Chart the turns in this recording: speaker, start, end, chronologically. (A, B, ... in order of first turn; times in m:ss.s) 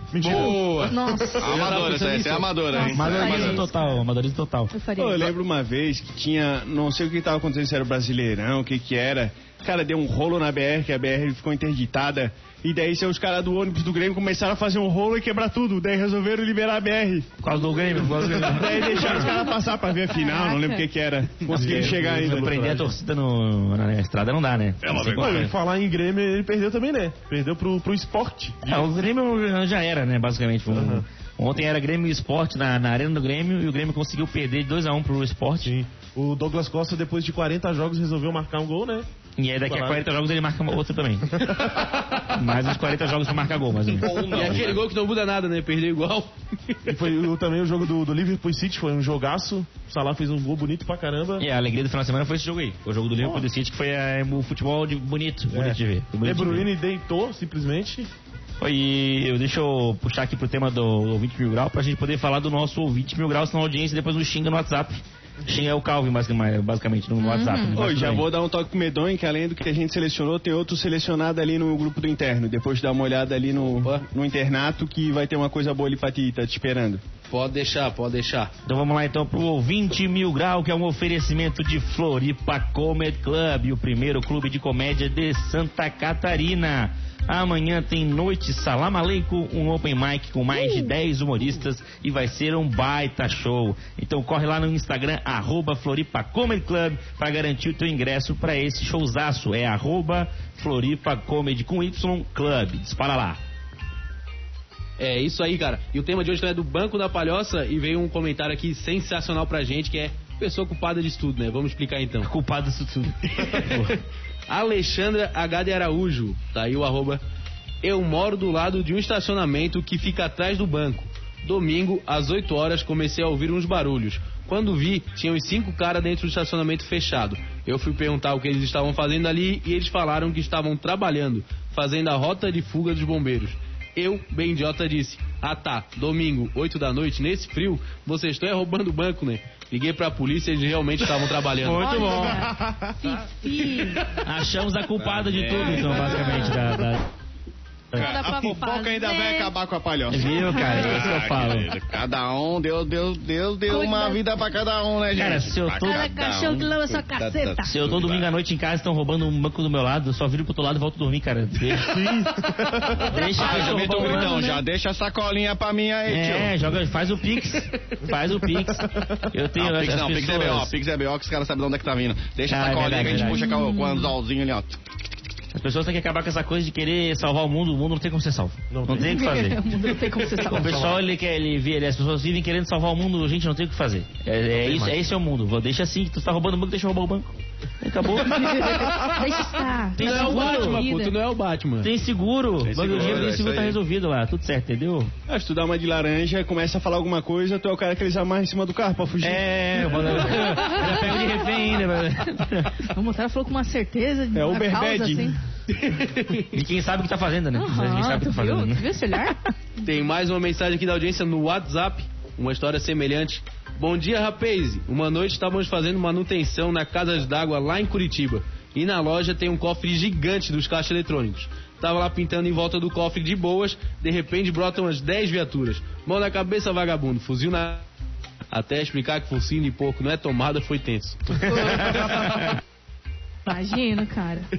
0:00.1-0:01.5 A
0:00.2-0:02.9 B
0:00.9-0:01.5 C
0:01.4-0:03.6 D
0:02.7-0:04.0 C
0:02.9-0:04.7 E
0:04.7-0:05.3 C
0:05.0-0:17.3 F
0:17.4-0:19.2 E
0:18.1-0:22.5 F
0:20.2-0:20.8 C
0:21.5-0:23.0 A
0:21.5-0:25.5 E
0:24.8-0:25.3 D
0:24.9-0:28.9 A
0:28.6-0:35.7 E
0:30.7-0:31.0 A
0:35.6-0:39.1 A
0:39.4-0:41.6 E
0:39.6-0:40.0 A
0:41.4-0:42.0 A
0:42.2-0:44.7 E
0:43.9-0:44.8 D
0:44.3-0:47.0 B
0:46.8-0:51.4 A
0:51.4-0:56.7 E
0:53.2-0:53.5 A
0:55.5-0:58.1 A
0:58.6-1:08.2 E
1:07.2-1:07.8 C
1:07.8-1:17.0 F
1:13.6-1:14.0 B
1:17.3-1:18.5 B
1:18.6-1:43.4 E
1:30.6-1:30.9 C
1:45.0-1:52.3 B
1:52.2-1:53.9 E
1:53.5-1:53.8 B
1:54.5-1:57.2 B
1:57.8-2:22.1 B
2:21.6-2:22.5 E
2:21.7-2:24.0 C
2:24.2-2:27.0 E
2:25.0-2:26.2 D
2:25.6-2:26.6 C
2:27.9-2:29.5 C
2:28.0-2:30.6 F
2:30.1-2:31.7 E
2:30.3-2:31.0 C
2:30.4-2:38.3 D
2:33.7-2:34.2 C
2:35.1-2:36.0 E
2:35.8-2:37.8 C
2:37.6-2:42.3 E
2:41.7-2:43.1 A
2:43.0-2:44.5 E
2:43.3-2:46.5 D
2:43.4-2:44.6 C
2:46.1-2:50.7 E
2:49.6-2:54.8 D
2:52.5-2:53.4 E
2:53.0-2:54.1 C
2:55.5-2:59.6 E
2:58.7-2:59.2 A
2:59.0-3:01.0 C
3:00.4-3:08.8 E
3:04.6-3:04.9 A
3:08.2-3:11.2 C
3:10.0-3:10.8 E
3:10.0-3:11.9 B
3:11.8-3:15.1 E
3:12.6-3:13.8 D
3:15.3-3:20.2 F
3:19.2-3:22.8 E
3:20.2-3:21.9 C
3:22.4-3:25.4 C
3:24.3-3:25.3 F
3:25.7-3:26.4 B
3:26.5-3:28.8 E
3:27.5-3:29.5 C
3:29.8-3:47.8 B
3:48.5-3:52.2 B
3:51.5-3:51.9 C
3:51.5-3:52.6 E
3:53.4-3:54.5 C